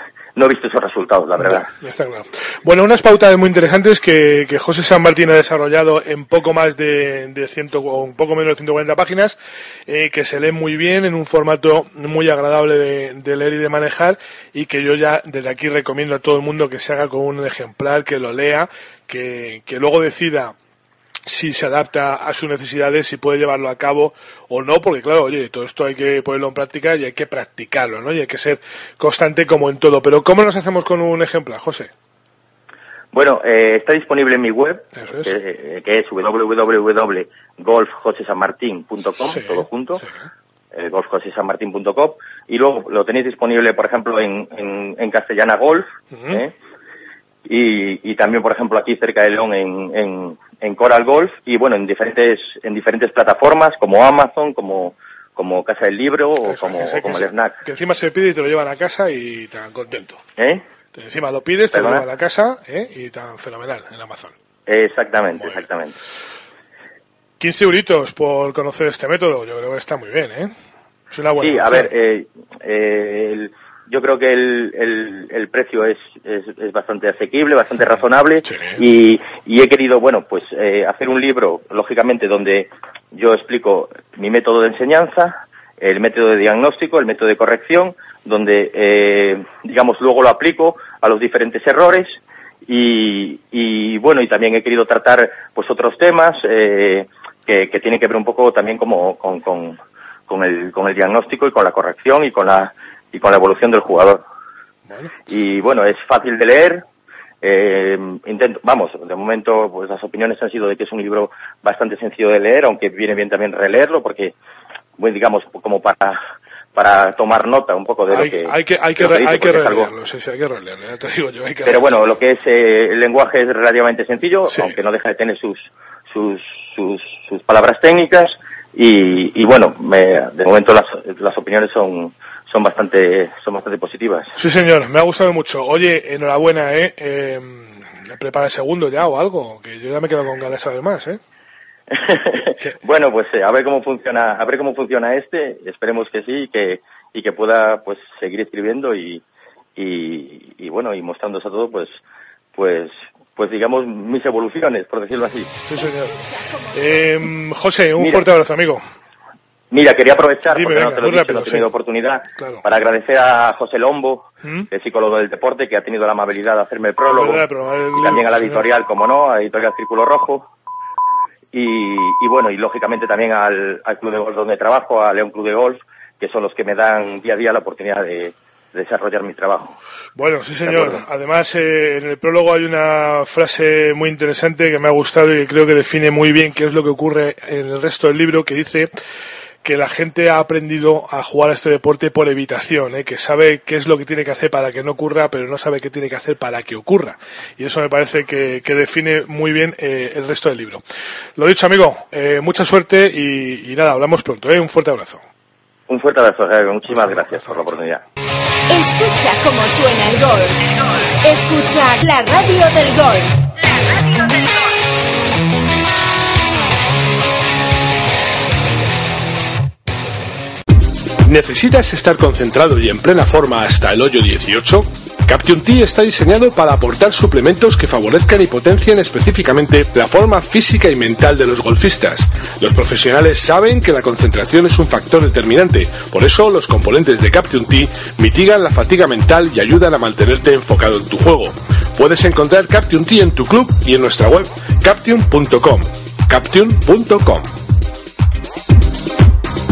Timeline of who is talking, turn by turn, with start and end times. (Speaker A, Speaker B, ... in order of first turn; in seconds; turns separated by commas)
Speaker A: 0.3-1.7, Speaker B: 1.4-20.5, Speaker B: 21.2-31.9, Speaker A: 33.1-40.0, Speaker B: 35.0-35.3, Speaker B: 39.2-40.1, Speaker A: 40.7-46.5, Speaker B: 46.1-46.4, Speaker A: 47.4-57.6, Speaker B: 56.4-60.2, Speaker A: 60.4-60.6, Speaker B: 60.9-64.3, Speaker A: 61.7-62.0, Speaker A: 64.7-65.9, Speaker B: 65.4-65.6, Speaker B: 67.4-70.5, Speaker B: 71.1-71.9, Speaker A: 71.4-104.2, Speaker B: 78.4-78.8, Speaker B: 104.9-105.1, Speaker A: 105.3-106.8, Speaker A: 107.4-114.3, Speaker A: 115.0-116.2, Speaker A: 116.7-119.9, Speaker B: 118.1-122.0, Speaker A: 121.6-134.3, Speaker B: 124.5-124.8, Speaker B: 134.3-141.2, Speaker A: 141.9-149.2, Speaker A: 149.8-152.0, Speaker A: 152.5-155.5, Speaker B: 155.6-156.2, Speaker C: 155.7-157.3, Speaker B: 156.7-158.8, Speaker A: 158.0-158.2, Speaker A: 159.7-170.5, Speaker B: 160.4-161.7, Speaker B: 162.4-162.6, Speaker B: 164.4-164.7, Speaker B: 167.1-168.6, Speaker A: 171.5-179.8, Speaker B: 180.2-188.9, Speaker A: 180.6-181.0, Speaker B: 189.6-200.8, Speaker B: 201.4-205.2, Speaker A: 205.9-208.0, Speaker B: 206.9-207.8, Speaker C: 208.7-210.7, Speaker C: 211.2-213.4, Speaker B: 221.2-247.5